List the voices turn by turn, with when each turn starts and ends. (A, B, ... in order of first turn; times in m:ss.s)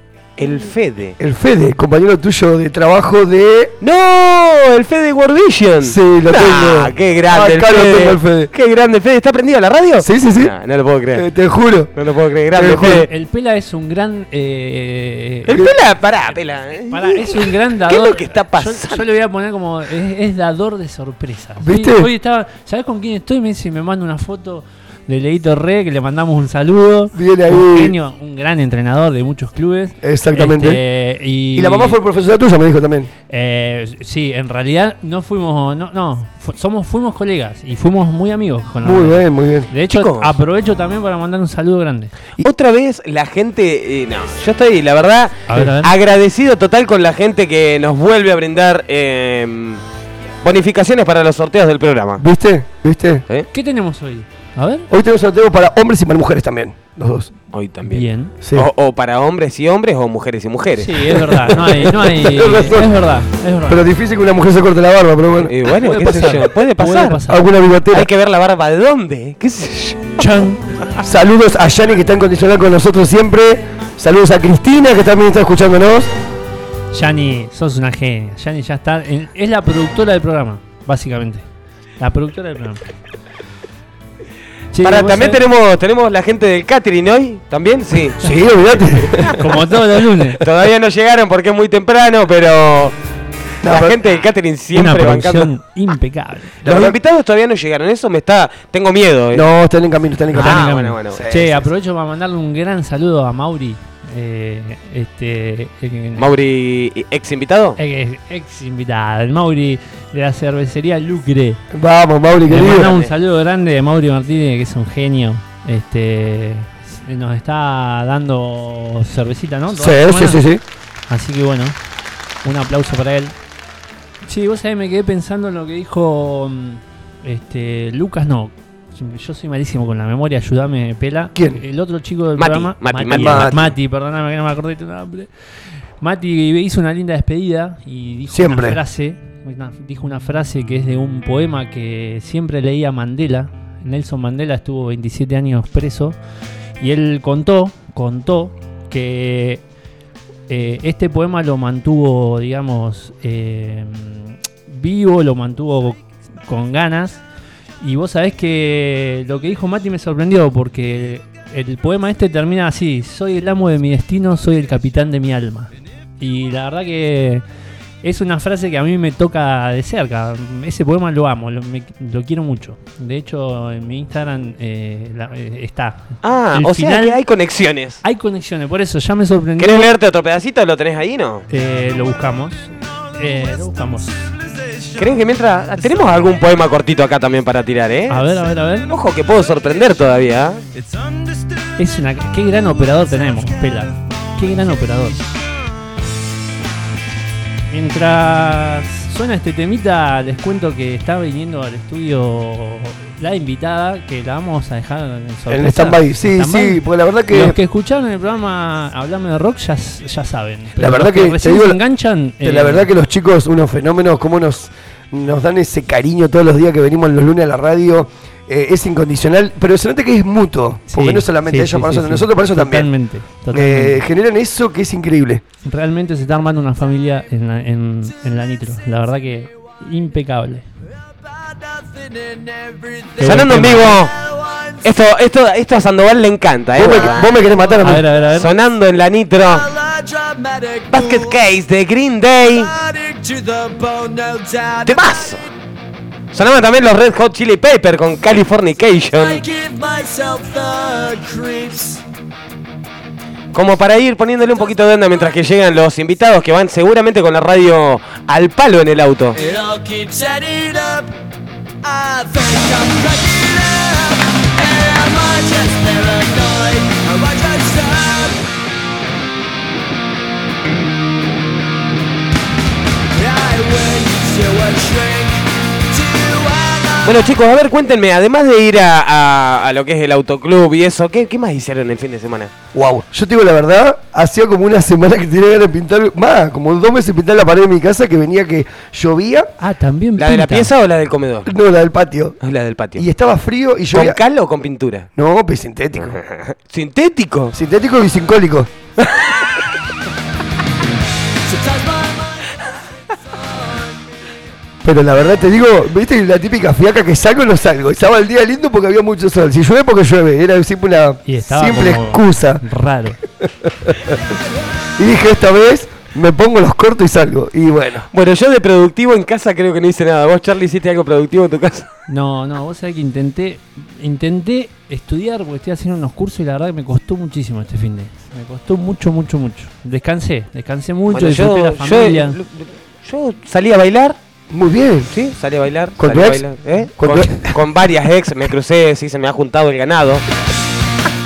0:00.4-0:01.2 A
0:01.2-0:03.7 B
0:03.8-0:11.3 A
0:05.8-0:08.5 B
0:10.0-0:10.5 B
0:11.1-0:11.9 B
0:11.9-0:13.1 A
0:12.5-0:13.1 B
0:13.0-0:15.5 C
0:15.4-0:19.0 A
0:16.9-0:31.9 C
0:21.6-0:22.1 B
0:27.1-0:27.9 B
0:30.0-0:30.8 B
0:31.5-0:33.1 B
0:33.3-0:42.1 C
0:38.8-0:39.7 B
0:39.8-0:40.3 A
0:42.4-0:49.8 A
0:45.5-0:45.9 C
0:50.4-0:52.2 A
0:52.2-0:53.2 B
0:53.5-0:54.8 C
0:54.9-0:57.4 B
0:57.5-1:01.3 A
0:57.8-0:58.4 C
0:58.4-0:58.7 B
1:00.8-1:03.8 C
1:01.6-1:02.9 B
1:03.7-1:06.7 B
1:05.4-1:07.2 A
1:06.8-1:07.4 C
1:07.2-1:08.1 B
1:07.9-1:10.2 A
1:10.2-1:10.7 C
1:11.0-1:16.1 B
1:16.9-1:21.4 C
1:22.0-1:22.8 C
1:24.7-1:25.4 C
1:24.8-1:28.8 A
1:28.2-1:29.4 B
1:29.4-1:30.4 C
1:30.4-1:33.0 A
1:33.6-1:34.1 B
1:33.6-1:35.5 A
1:34.7-1:36.5 C
1:36.6-1:37.0 B
1:36.6-1:39.5 A
1:39.3-1:41.7 B
1:40.3-1:46.3 C
1:40.4-1:41.2 A
1:46.2-1:47.8 A
1:47.8-1:51.6 C
1:51.7-1:53.0 B
1:52.5-2:00.4 C
1:52.5-1:53.1 A
1:59.7-2:00.6 B
2:01.1-2:01.8 C
2:02.4-2:03.3 C
2:04.2-2:26.2 C
2:11.3-2:11.6 B
2:12.4-2:13.5 A
2:13.1-2:13.7 B
2:18.3-2:18.8 B
2:26.8-2:29.6 C
2:30.5-2:37.2 C
2:37.8-2:47.4 C
2:48.0-2:57.4 C
2:56.2-2:58.0 A
2:58.0-2:59.9 C
2:59.6-3:01.5 A
3:01.5-3:04.3 C
3:04.9-3:10.6 A
3:08.1-3:08.9 C
3:11.8-3:15.2 C
3:17.7-3:32.9 C
3:25.5-3:27.5 B
3:30.8-3:31.8 B
3:32.4-3:42.9 B
3:40.9-3:44.0 C
3:43.5-3:45.4 B
3:45.6-3:50.7 C
3:51.6-3:54.4 D
3:53.2-3:54.1 A
3:53.2-3:53.9 C
3:54.8-3:59.7 A
3:56.7-3:58.1 B
3:57.8-3:58.5 C
3:59.4-4:01.3 D
4:00.9-4:02.7 A
4:02.6-4:05.3 D
4:04.8-4:05.4 A
4:06.3-4:09.4 A
4:09.1-4:11.9 D
4:13.5-4:19.4 A
4:19.3-4:21.0 D
4:21.8-4:24.0 D
4:24.6-4:28.3 D
4:33.1-4:35.4 D
4:35.9-4:37.2 D
4:37.0-4:42.5 A
4:42.7-4:49.5 B
4:49.6-4:50.7 C
4:50.2-4:51.5 A
4:51.5-4:52.4 B
4:52.4-4:53.0 A
4:52.9-4:54.2 B
4:53.9-4:55.1 A
4:55.1-4:56.2 B
4:56.0-4:57.5 A
4:57.5-4:58.7 B
5:04.8-5:12.6 B
5:11.2-5:13.2 C
5:13.5-5:14.1 B
5:15.0-5:18.1 B
5:18.1-5:21.9 A
5:22.1-5:32.4 C
5:31.1-5:34.2 A
5:34.5-5:35.1 B
5:35.1-5:40.2 A
5:36.0-5:37.5 B